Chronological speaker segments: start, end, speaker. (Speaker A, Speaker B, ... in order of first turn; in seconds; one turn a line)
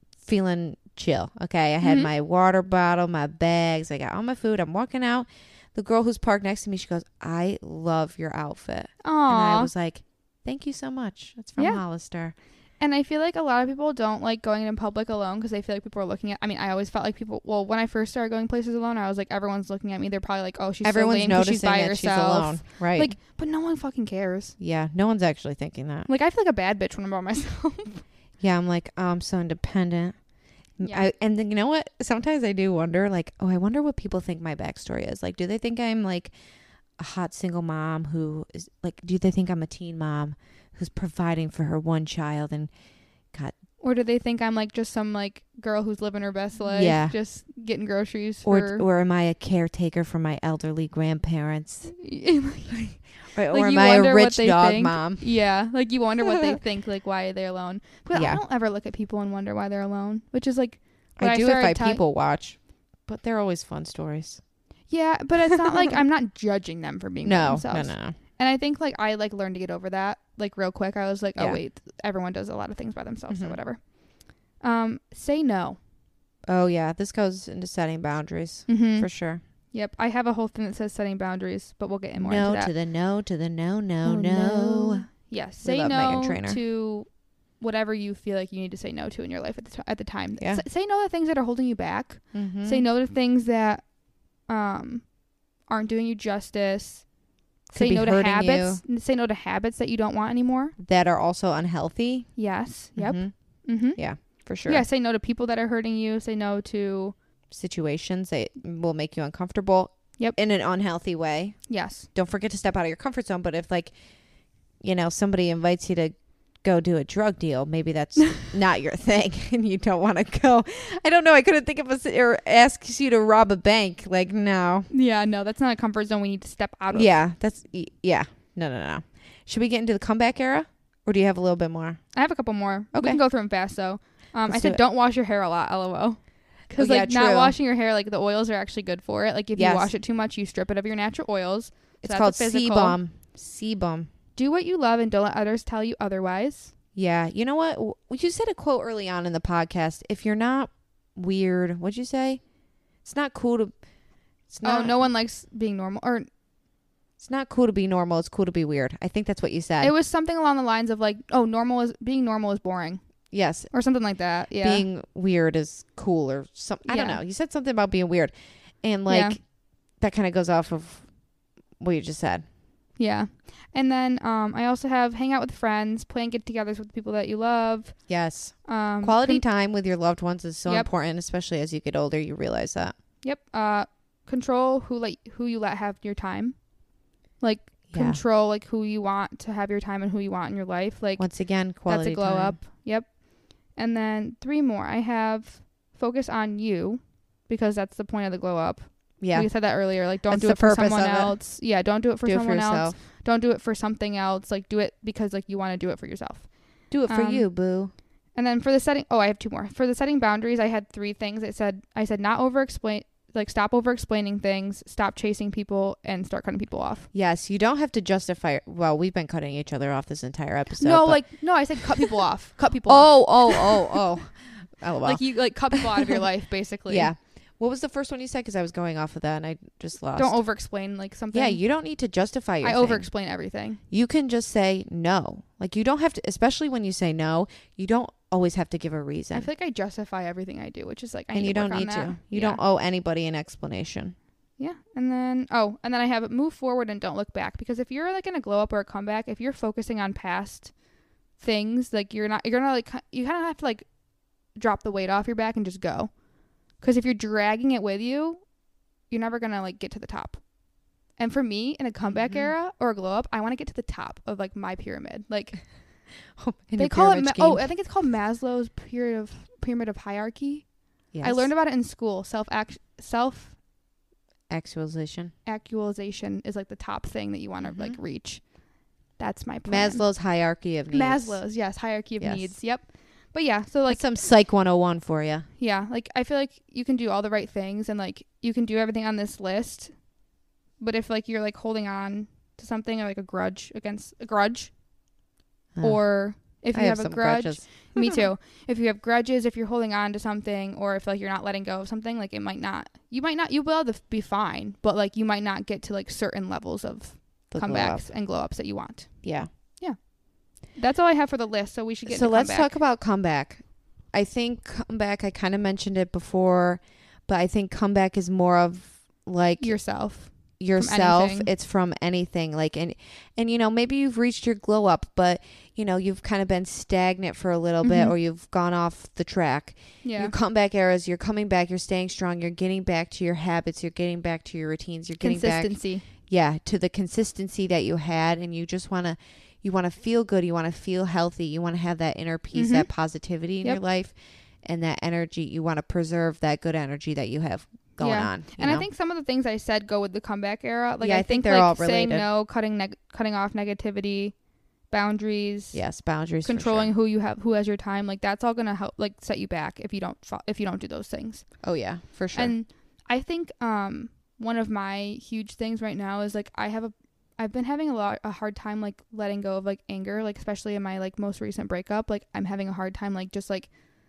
Speaker A: 0.2-12.3
Speaker B: 1.8-2.1
Speaker B: 9.0-9.7
Speaker B: 11.6-11.8
Speaker B: 12.8-24.6
Speaker A: 20.8-23.1
Speaker A: 24.6-26.1
Speaker B: 26.1-28.0
Speaker A: 28.4-30.2
Speaker A: 30.8-36.3
Speaker B: 30.8-31.1
Speaker A: 37.0-42.7
Speaker B: 43.8-48.8
Speaker A: 46.7-47.1
Speaker A: 48.5-51.9
Speaker B: 51.9-62.0
Speaker A: 53.3-55.3
Speaker A: 58.1-58.4
Speaker A: 61.2-64.4
Speaker B: 64.9-73.8
Speaker A: 67.2-68.2
Speaker A: 73.3-73.5
Speaker B: 74.6-75.8
Speaker A: 76.5-79.4
Speaker B: 78.7-79.1
Speaker B: 79.7-82.7
Speaker A: 82.2-85.1
Speaker B: 84.0-87.1
Speaker A: 85.6-86.6
Speaker B: 87.6-93.8
Speaker A: 90.4-90.6
Speaker A: 92.3-92.8
Speaker B: 94.5-95.1
Speaker B: 95.7-97.0
Speaker A: 97.7-98.8
Speaker B: 97.7-100.7
Speaker A: 100.8-102.3
Speaker B: 102.4-104.0
Speaker A: 103.0-103.3
Speaker A: 104.0-104.8
Speaker B: 104.7-107.1
Speaker A: 107.5-111.6
Speaker B: 111.7-112.1
Speaker A: 112.1-113.9
Speaker A: 114.8-124.9
Speaker B: 124.9-127.1
Speaker A: 126.9-132.0
Speaker B: 132.1-143.0
Speaker A: 132.9-133.2
Speaker A: 134.5-134.8
Speaker A: 136.8-137.5
Speaker A: 139.6-139.9
Speaker A: 142.0-144.1
Speaker B: 144.4-146.7
Speaker A: 146.9-152.4
Speaker A: 153.0-153.7
Speaker A: 154.5-155.0
Speaker B: 154.6-156.3
Speaker A: 157.2-159.9
Speaker B: 159.8-163.0
Speaker A: 163.3-163.7
Speaker B: 163.7-164.8
Speaker A: 164.6-169.4
Speaker B: 166.8-167.2
Speaker B: 169.1-169.4
Speaker A: 170.0-171.1
Speaker A: 171.8-172.4
Speaker B: 173.0-178.0
Speaker A: 178.1-182.9
Speaker B: 178.6-179.4
Speaker B: 183.2-186.6
Speaker B: 187.4-191.2
Speaker A: 187.9-188.2
Speaker A: 191.2-192.6
Speaker B: 191.8-193.2
Speaker B: 193.7-206.5
Speaker A: 199.2-199.5
Speaker A: 200.3-201.4
Speaker A: 202.2-203.0
Speaker A: 206.9-207.9
Speaker B: 207.1-207.4
Speaker B: 208.3-217.1
Speaker A: 217.1-221.2
Speaker B: 220.8-224.0
Speaker A: 221.8-222.1
Speaker A: 222.8-226.2
Speaker B: 225.0-227.1
Speaker A: 226.9-230.4
Speaker B: 230.2-231.6
Speaker A: 231.3-233.1
Speaker B: 232.6-233.8
Speaker A: 233.9-239.5
Speaker B: 239.3-242.6
Speaker A: 241.3-244.1
Speaker B: 244.6-250.7
Speaker B: 251.4-253.9
Speaker B: 254.5-256.1
Speaker B: 256.8-258.4
Speaker B: 259.1-260.4
Speaker B: 261.2-265.6
Speaker A: 262.1-262.5
Speaker A: 266.4-267.6
Speaker B: 266.8-270.7
Speaker A: 271.1-271.5
Speaker B: 271.2-273.6
Speaker A: 274.5-275.3
Speaker B: 275.4-278.4
Speaker A: 277.6-278.0
Speaker B: 279.2-280.1
Speaker A: 279.6-281.4
Speaker B: 280.9-284.0
Speaker A: 282.2-282.5
Speaker A: 283.9-285.5
Speaker B: 285.6-289.9
Speaker B: 290.8-294.7
Speaker A: 295.7-298.2
Speaker B: 295.8-309.2
Speaker A: 307.5-308.1
Speaker A: 309.2-309.5
Speaker B: 310.7-312.7
Speaker A: 312.1-319.8
Speaker B: 319.6-321.5
Speaker A: 320.3-348.9
Speaker B: 327.8-328.1
Speaker B: 330.0-330.3
Speaker B: 335.2-336.1
Speaker B: 342.5-342.9
Speaker B: 348.0-354.3
Speaker A: 351.0-352.3
Speaker B: 354.9-355.8
Speaker A: 355.7-356.9
Speaker B: 356.4-361.5
Speaker A: 361.6-362.5
Speaker B: 362.3-373.7